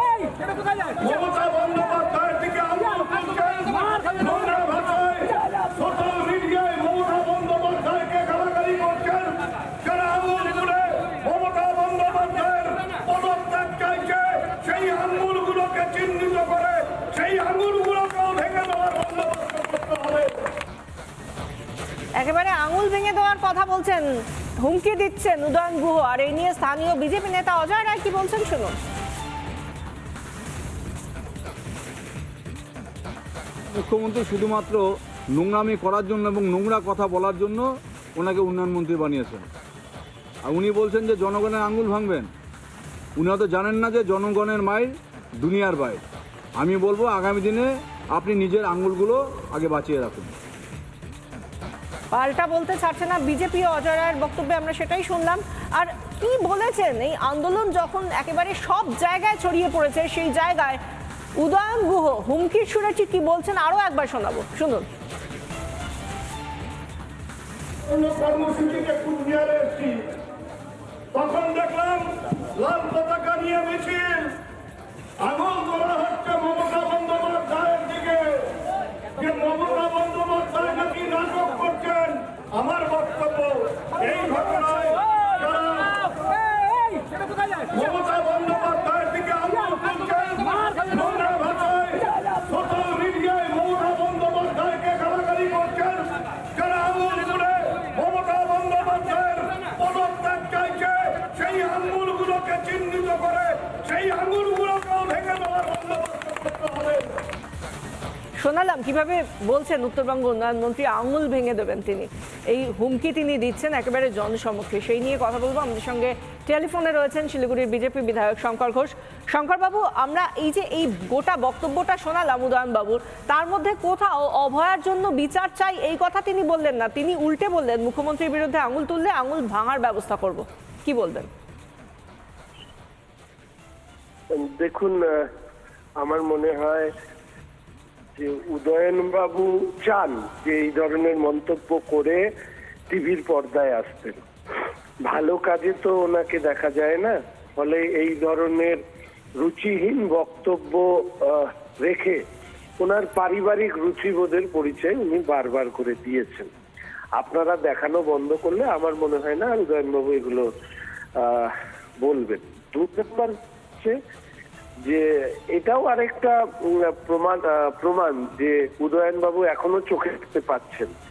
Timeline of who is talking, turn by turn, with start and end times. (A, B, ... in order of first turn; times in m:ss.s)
0:01.0-0:20.4 A
0:22.2-0:28.8 B
0:33.7-0:39.5 C
0:40.4-0:42.3 C
0:43.2-0:46.0 C
0:46.6-0:50.3 C
0:52.1-1:00.8 B
1:01.4-1:04.8 B
1:07.8-1:10.1 A
1:11.1-1:14.4 A
1:15.2-1:26.0 A
1:27.7-1:47.1 A
1:48.4-2:11.3 B
2:14.3-2:15.3 D
2:16.0-2:16.9 D
2:18.2-2:22.2 D
2:22.9-2:24.2 D
2:25.0-2:28.8 D
2:29.4-2:32.2 D
2:32.8-2:36.5 D
2:37.2-2:40.5 D
2:41.2-2:44.0 D
2:44.9-2:50.9 D